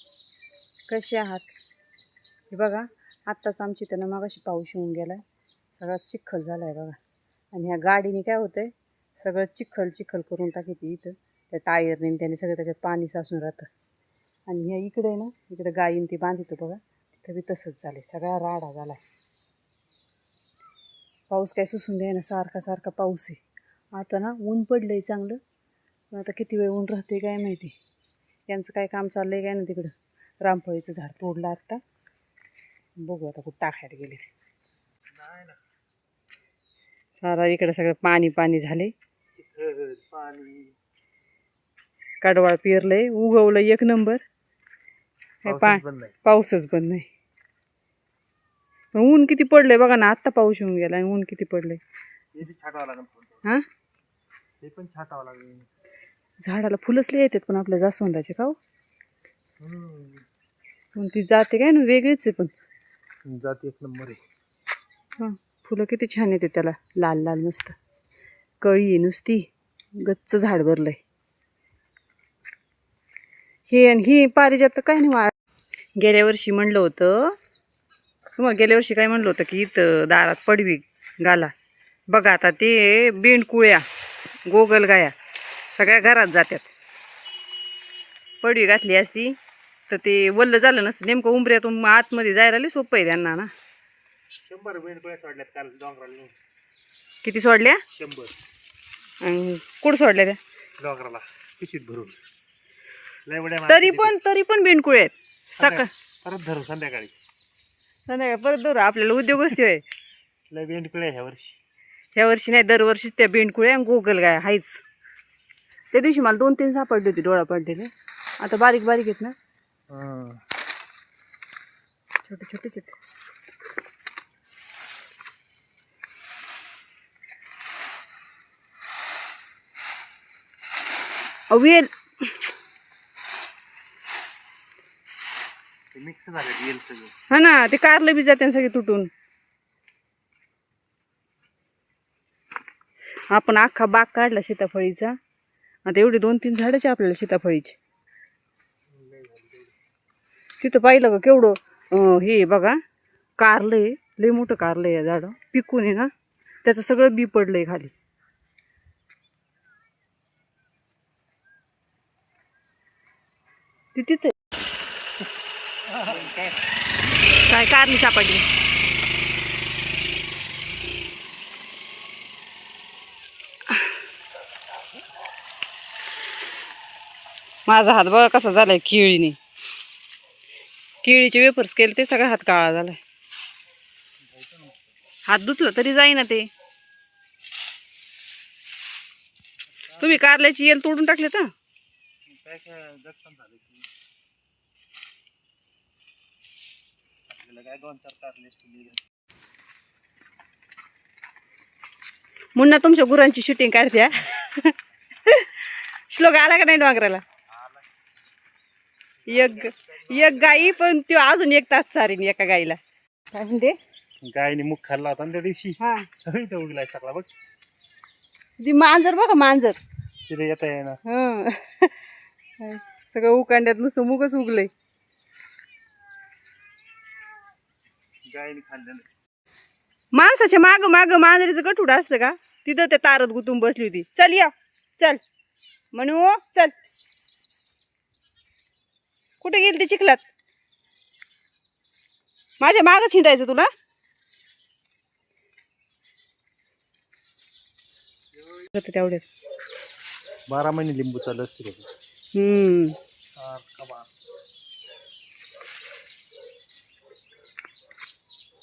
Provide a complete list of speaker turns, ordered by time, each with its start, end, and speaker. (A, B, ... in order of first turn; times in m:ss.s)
0:00.9-0:01.5 A
0:02.5-0:05.2 A
0:05.8-0:07.0 A
0:07.5-0:13.7 A
0:14.5-0:19.0 A
0:21.3-0:23.4 A
0:23.9-0:25.4 A
0:26.1-0:27.8 A
0:28.5-0:31.8 A
0:33.0-0:34.3 A
0:35.1-0:35.6 B
0:37.2-0:38.9 A
0:39.3-0:40.8 B
0:42.2-0:44.2 A
0:45.4-0:47.1 A
0:45.4-0:46.2 B
0:49.0-0:51.8 A
0:52.3-0:53.5 B
0:54.6-0:55.7 B
0:56.4-0:58.6 A
0:59.6-1:00.3 B
1:00.9-1:02.5 A
1:03.2-1:04.2 B
1:05.2-1:07.8 A
1:08.6-1:11.0 A
1:13.7-1:15.3 A
1:16.0-1:17.4 A
1:18.4-1:21.5 A
1:22.1-1:23.8 A
1:24.4-1:25.1 A
1:25.8-1:26.7 A
1:28.4-1:29.4 A
1:29.9-1:33.5 A
1:34.5-1:36.4 B
1:37.2-1:37.8 A
1:37.9-1:38.3 B
1:39.2-1:40.4 A
1:40.8-1:42.2 B
1:43.2-1:44.2 B
1:43.7-1:45.9 A
1:45.6-1:47.2 B
1:48.1-1:49.8 A
1:50.5-1:51.6 B
1:52.1-1:54.8 A
1:55.9-1:57.9 A
1:58.4-1:59.3 A
1:59.9-2:00.4 B
2:02.3-2:03.0 A
2:11.5-2:12.3 A
2:15.9-2:17.2 B
2:17.3-2:19.1 A
2:23.3-2:25.2 A
2:25.8-2:27.8 A
2:28.9-2:29.7 B
2:30.6-2:32.8 A
2:33.4-2:36.1 A
2:36.6-2:37.9 A
2:43.9-2:44.3 A
2:45.9-2:46.6 B
2:47.4-2:48.4 A
2:57.7-2:59.4 A
3:01.0-3:03.0 A
3:04.2-3:04.9 B
3:05.3-3:06.5 A
3:09.9-3:10.2 B
3:10.0-3:11.5 A
3:12.2-3:13.9 B
3:17.3-3:19.0 B
3:22.5-3:27.2 A
3:29.2-3:30.7 B
3:29.3-3:32.8 A
3:33.3-3:33.8 A
3:34.2-3:37.3 B
3:35.8-3:36.1 A
3:38.6-3:39.8 A
3:40.3-3:41.0 B
3:41.0-3:42.0 A
3:42.6-3:44.7 A
3:48.3-3:49.1 B
3:50.1-3:55.2 A
3:55.9-3:57.5 A
3:59.4-4:00.2 A
4:02.6-4:03.7 A
4:08.7-4:09.2 A
4:10.5-4:11.9 B
4:12.3-4:13.0 A
4:13.4-4:14.1 B